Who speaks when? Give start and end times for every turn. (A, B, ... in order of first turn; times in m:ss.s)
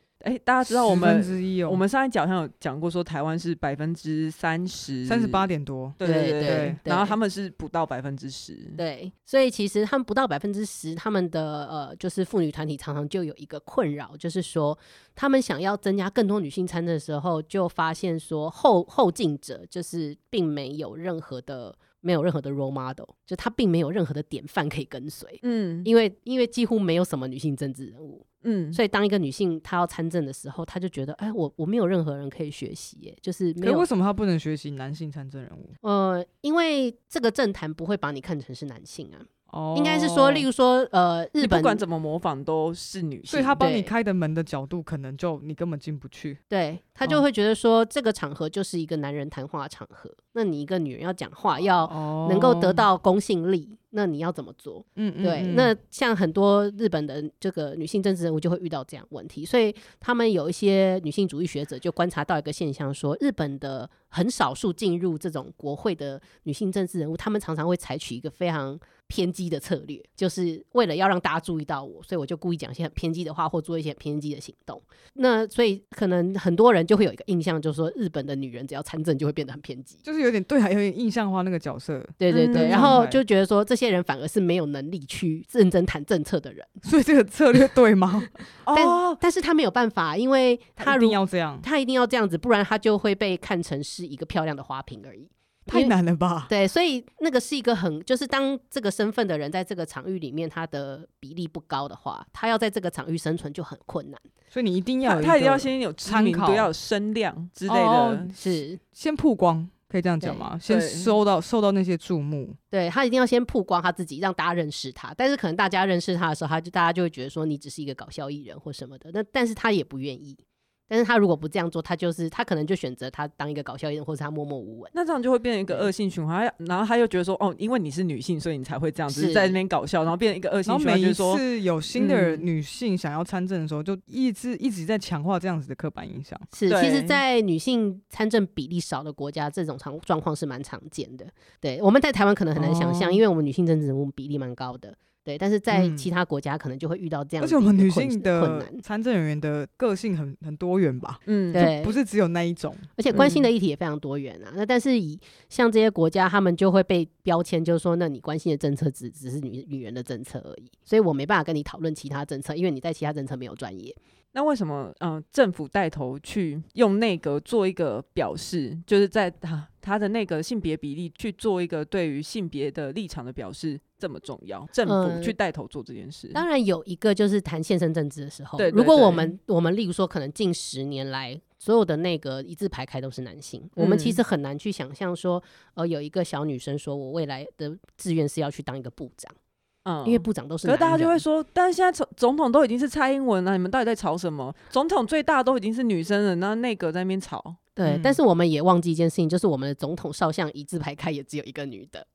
0:00.2-0:05.5 A
0:00.6-0:01.8 B
0:05.1-0:06.8 B
0:06.0-0:08.8 A
0:06.0-0:07.2 C
0:08.8-0:33.9 C
0:25.4-0:25.9 A
0:28.4-0:28.8 A
0:33.6-0:35.7 B
0:35.8-0:41.8 C
0:39.5-0:40.5 B
0:41.4-0:43.6 A
0:43.3-0:46.4 B
0:43.6-0:43.9 C
0:46.5-1:20.0 C
0:51.8-0:52.8 B
0:55.0-0:55.7 B
1:20.0-1:23.2 B
1:22.2-1:26.8 C
1:22.3-1:23.0 A
1:26.8-1:29.2 B
1:28.7-1:35.9 C
1:30.8-1:31.6 B
1:35.7-1:36.5 B
1:36.5-1:44.2 C
1:44.5-1:46.7 B
1:45.0-1:48.3 A
1:47.7-1:52.6 B
1:48.4-1:48.8 C
1:50.2-1:50.5 C
1:50.7-1:51.1 A
1:52.7-2:04.9 C
2:04.9-2:11.4 A
2:09.1-2:09.6 C
2:10.7-2:16.5 B
2:11.9-2:12.5 A
2:16.5-2:28.8 C
2:16.7-2:17.2 A
2:22.6-2:23.2 B
2:25.7-2:26.1 B
2:27.4-2:32.9 B
2:31.3-2:31.6 A
2:31.5-2:32.0 C
2:33.0-2:44.0 C
2:33.1-2:33.5 A
2:44.3-2:56.4 A
2:54.8-2:55.4 C
2:56.3-3:09.3 C
2:58.6-2:59.4 A
3:03.8-3:04.2 A
3:09.8-3:17.6 A
3:10.0-3:11.2 C
3:17.8-3:22.1 C
3:17.8-3:18.2 B